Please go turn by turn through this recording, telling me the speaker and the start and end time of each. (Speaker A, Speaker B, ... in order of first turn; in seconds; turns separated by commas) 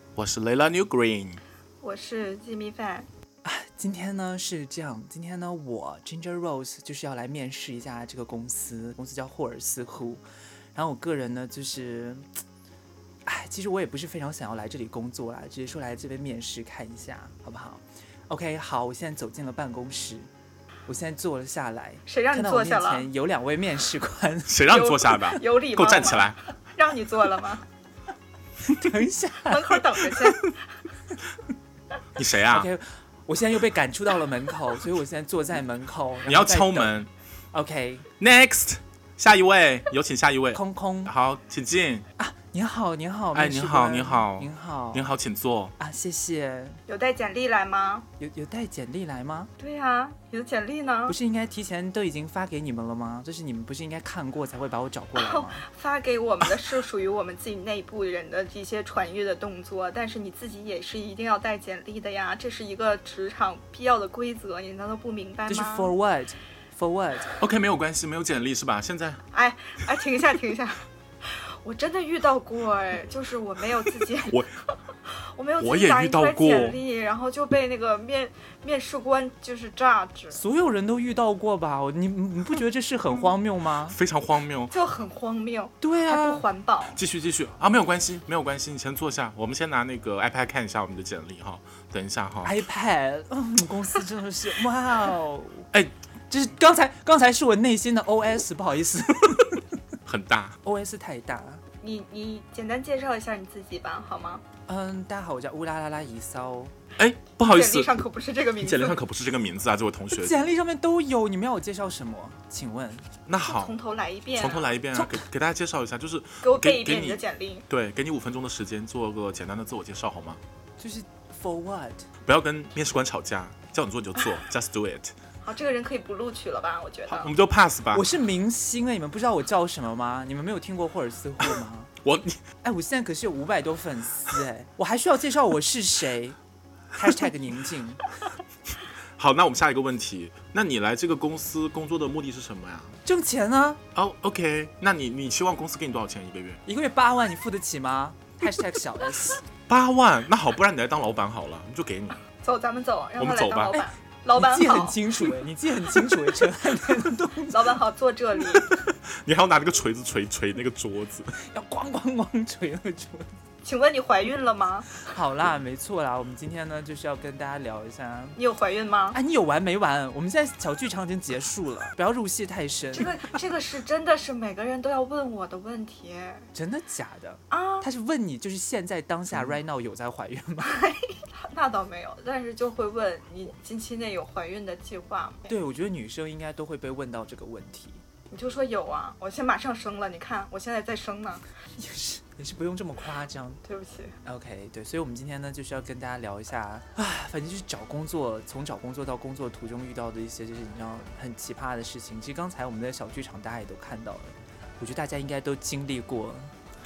Speaker A: 0.1-1.4, Speaker B: 1.8-3.1, Speaker C: 3.4-10.2, Speaker C: 10.7-12.2, Speaker C: 13.2-20.3, Speaker C: 20.9-24.6, Speaker B: 22.1-23.1, Speaker A: 24.5-26.4, Speaker B: 24.7-27.6, Speaker C: 28.6-29.8, Speaker B: 29.5-30.6, Speaker A: 32.1-32.7, Speaker C: 32.5-36.9, Speaker A: 36.2-37.1, Speaker C: 37.5-38.1, Speaker A: 38.2-42.0, Speaker C: 40.5-41.1, Speaker C: 42.2-45.1, Speaker A: 43.3-45.7, Speaker C: 45.8-46.8, Speaker B: 46.9-48.1, Speaker C: 48.2-49.5, Speaker B: 49.6-51.1, Speaker C: 51.1-55.6, Speaker B: 55.1-65.9, Speaker C: 65.5-67.3, Speaker A: 67.4-69.2, Speaker B: 69.3-74.4, Speaker A: 74.2-74.5, Speaker B: 75.1-80.4, Speaker A: 75.6-76.8, Speaker C: 80.3-84.0, Speaker A: 83.9-84.7, Speaker B: 84.7-87.0, Speaker C: 85.8-86.4, Speaker A: 86.9-92.6, Speaker C: 92.4-95.7, Speaker C: 96.3-99.6, Speaker A: 100.0-100.6, Speaker C: 100.6-101.6, Speaker B: 101.8-104.4, Speaker C: 104.7-106.7, Speaker A: 107.0-107.9, Speaker B: 107.4-109.0, Speaker A: 108.6-110.3, Speaker C: 110.2-113.1, Speaker A: 113.3-113.8, Speaker B: 113.4-114.7, Speaker A: 114.3-120.4, Speaker C: 114.9-115.2, Speaker B: 116.4-117.6, Speaker C: 120.8-122.1, Speaker A: 122.2-125.1, Speaker B: 125.4-127.3, Speaker A: 127.1-128.1, Speaker C: 127.9-131.9, Speaker A: 132.0-132.4, Speaker C: 132.6-136.3, Speaker C: 136.9-138.0, Speaker A: 139.2-142.9, Speaker C: 143.0-143.8, Speaker A: 143.9-146.6, Speaker C: 146.7-149.4, Speaker A: 149.7-152.2, Speaker B: 152.4-155.1, Speaker A: 153.2-153.8, Speaker C: 153.7-157.7, Speaker B: 157.5-158.7, Speaker A: 158.7-161.3, Speaker C: 161.5-163.3, Speaker B: 163.6-165.1, Speaker C: 165.1-168.4, Speaker B: 168.4-169.2, Speaker C: 169.1-173.3, Speaker B: 172.9-176.5, Speaker C: 176.5-180.8, Speaker B: 177.5-177.8, Speaker B: 180.6-185.5, Speaker C: 185.5-188.0, Speaker B: 188.3-191.4, Speaker C: 191.8-193.6, Speaker B: 193.6-194.1, Speaker C: 194.2-206.5